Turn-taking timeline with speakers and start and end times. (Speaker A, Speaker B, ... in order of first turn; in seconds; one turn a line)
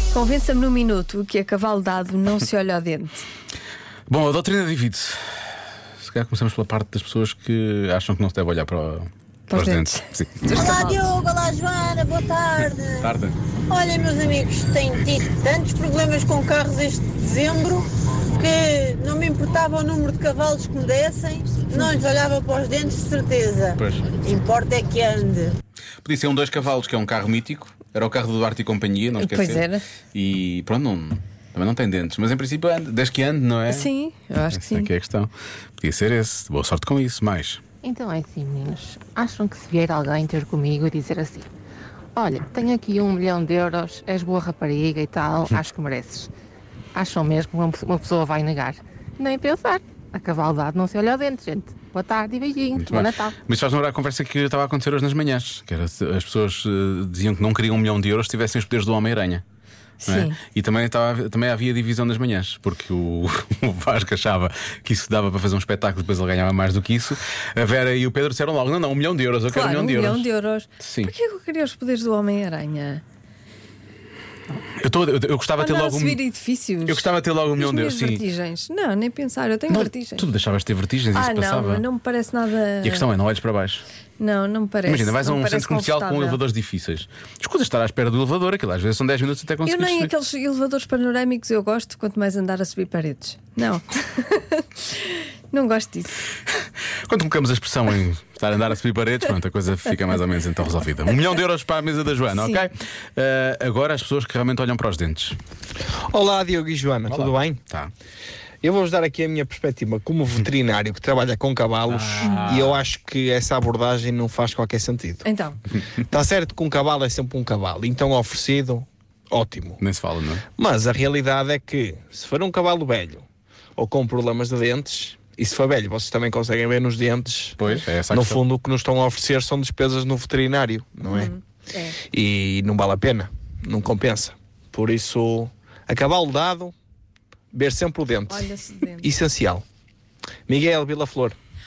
Speaker A: 0.1-3.2
Speaker B: 4.1-5.2
Speaker B: 6.0-10.3
Speaker A: 9.5-11.0
Speaker C: 10.5-13.1
Speaker B: 13.0-13.4
Speaker C: 13.7-25.6
Speaker B: 23.8-24.1
Speaker B: 26.0-33.9
Speaker A: 29.2-29.8
Speaker A: 33.7-34.9
Speaker B: 34.5-37.6
Speaker D: 37.8-41.5
Speaker D: 42.1-46.3
Speaker D: 46.9-53.3
Speaker B: 52.8-59.4
Speaker A: 60.0-60.4
Speaker B: 60.0-70.2
Speaker A: 69.5-73.0
Speaker B: 70.8-71.1
Speaker B: 74.7-76.2
Speaker A: 75.6-80.2
Speaker B: 76.9-78.2
Speaker B: 79.7-81.8
Speaker A: 81.1-83.0
Speaker B: 82.8-83.8
Speaker A: 84.2-86.4
Speaker B: 84.8-90.1
Speaker A: 89.6-96.2
Speaker B: 97.0-105.4
Speaker A: 102.3-102.7
Speaker E: 106.1-107.6
Speaker B: 107.1-107.9
Speaker E: 108.6-115.2
Speaker B: 111.8-112.8
Speaker A: 115.2-115.6
Speaker E: 116.0-119.8
Speaker B: 119.8-120.5
Speaker E: 120.6-123.2
Speaker E: 123.8-127.6
Speaker B: 127.6-128.4
Speaker E: 128.1-131.3
Speaker A: 131.0-131.9
Speaker E: 132.1-136.7
Speaker E: 137.5-138.5
Speaker A: 138.3-139.1
Speaker E: 139.0-139.6
Speaker E: 140.5-141.3